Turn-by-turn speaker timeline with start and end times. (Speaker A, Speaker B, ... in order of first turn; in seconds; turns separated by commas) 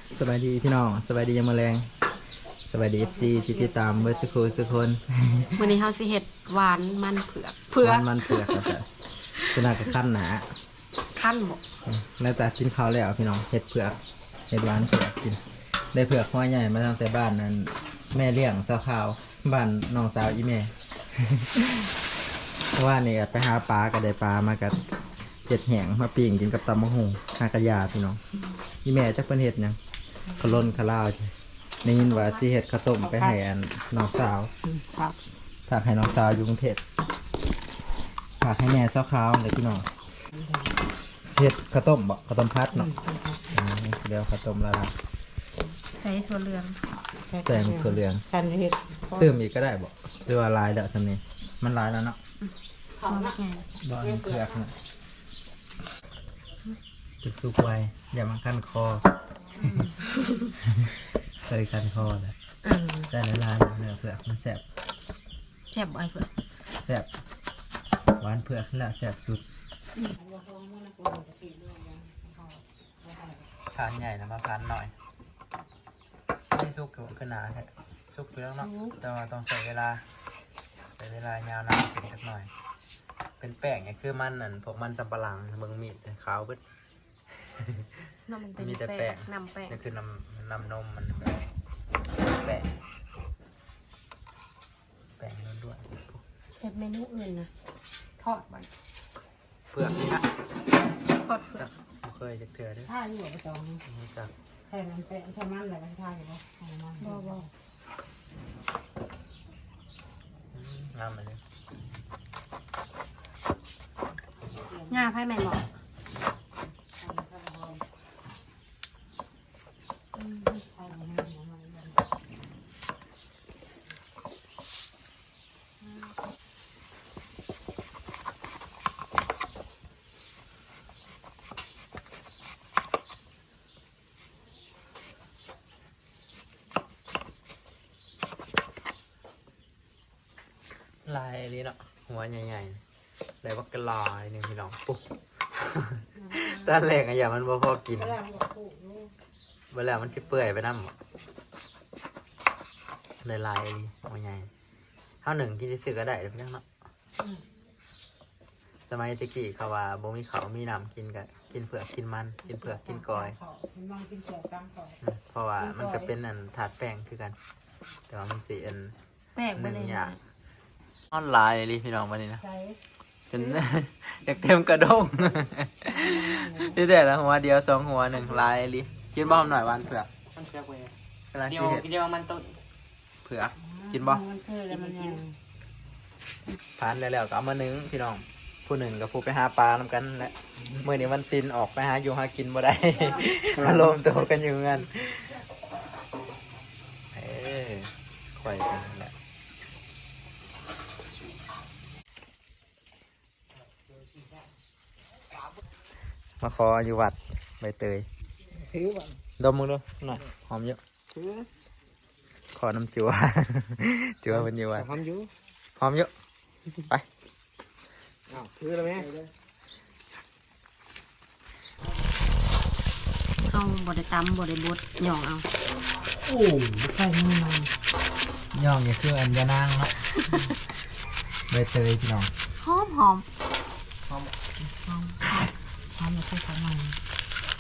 Speaker A: 0.1-1.9, Speaker A: 2.7-5.5, Speaker B: 5.5-8.6, Speaker A: 7.8-8.8, Speaker A: 9.4-10.4, Speaker B: 11.1-11.6, Speaker A: 11.8-14.0, Speaker A: 14.5-15.4, Speaker A: 15.9-20.7, Speaker A: 21.3-21.9, Speaker A: 22.7-24.8, Speaker A: 25.5-28.2, Speaker A: 28.8-29.8, Speaker A: 30.4-31.3, Speaker A: 31.8-34.5, Speaker A: 35.7-36.8, Speaker A: 38.4-39.8, Speaker A: 41.3-42.9, Speaker A: 43.5-44.9, Speaker B: 46.0-46.8, Speaker C: 47.3-49.2, Speaker A: 47.4-48.2, Speaker A: 49.1-52.2, Speaker B: 53.0-53.6, Speaker A: 53.8-54.7, Speaker A: 57.2-59.1, Speaker A: 59.6-59.9, Speaker B: 59.6-60.5, Speaker A: 61.4-62.3, Speaker B: 62.6-63.1, Speaker A: 63.1-64.6, Speaker B: 65.7-66.3, Speaker A: 66.8-67.1, Speaker A: 68.2-69.4, Speaker D: 70.3-72.2, Speaker A: 73.7-74.9, Speaker A: 76.5-80.0, Speaker B: 78.6-78.9, Speaker A: 81.0-82.5, Speaker A: 83.4-86.6, Speaker A: 87.6-87.8, Speaker B: 88.3-89.7, Speaker A: 88.6-91.3, Speaker A: 92.3-92.7, Speaker A: 95.2-96.2, Speaker B: 96.6-97.5, Speaker A: 99.7-100.2, Speaker B: 101.2-101.6, Speaker A: 101.6-102.9, Speaker D: 103.0-103.8, Speaker A: 103.8-104.3, Speaker D: 104.7-106.9, Speaker B: 107.0-107.5, Speaker A: 110.5-111.4, Speaker B: 114.9-115.6, Speaker A: 141.0-142.8, Speaker A: 143.4-145.0, Speaker A: 145.6-148.4, Speaker D: 148.4-148.9, Speaker A: 149.7-150.9, Speaker A: 153.2-154.5, Speaker A: 155.2-156.6, Speaker A: 158.9-163.4, Speaker D: 163.6-164.7, Speaker A: 165.0-167.4, Speaker B: 165.6-166.1, Speaker A: 168.1-168.9, Speaker B: 169.3-170.2, Speaker A: 169.5-170.2, Speaker A: 171.1-172.4, Speaker A: 173.3-180.1, Speaker C: 180.3-180.9, Speaker A: 181.3-181.8, Speaker C: 181.5-182.5, Speaker A: 183.2-184.2, Speaker B: 184.4-185.2, Speaker C: 184.7-185.2, Speaker A: 186.8-195.4, Speaker A: 197.1-199.1, Speaker A: 206.4-208.0, Speaker A: 209.4-210.8, Speaker C: 211.2-211.4, Speaker A: 212.5-214.9, Speaker C: 214.8-215.3, Speaker A: 215.8-216.1, Speaker C: 218.3-219.1, Speaker B: 223.4-225.5, Speaker A: 226.3-226.7, Speaker D: 227.1-227.6, Speaker A: 228.5-229.9, Speaker A: 231.5-232.3, Speaker B: 232.6-233.2, Speaker D: 236.1-236.8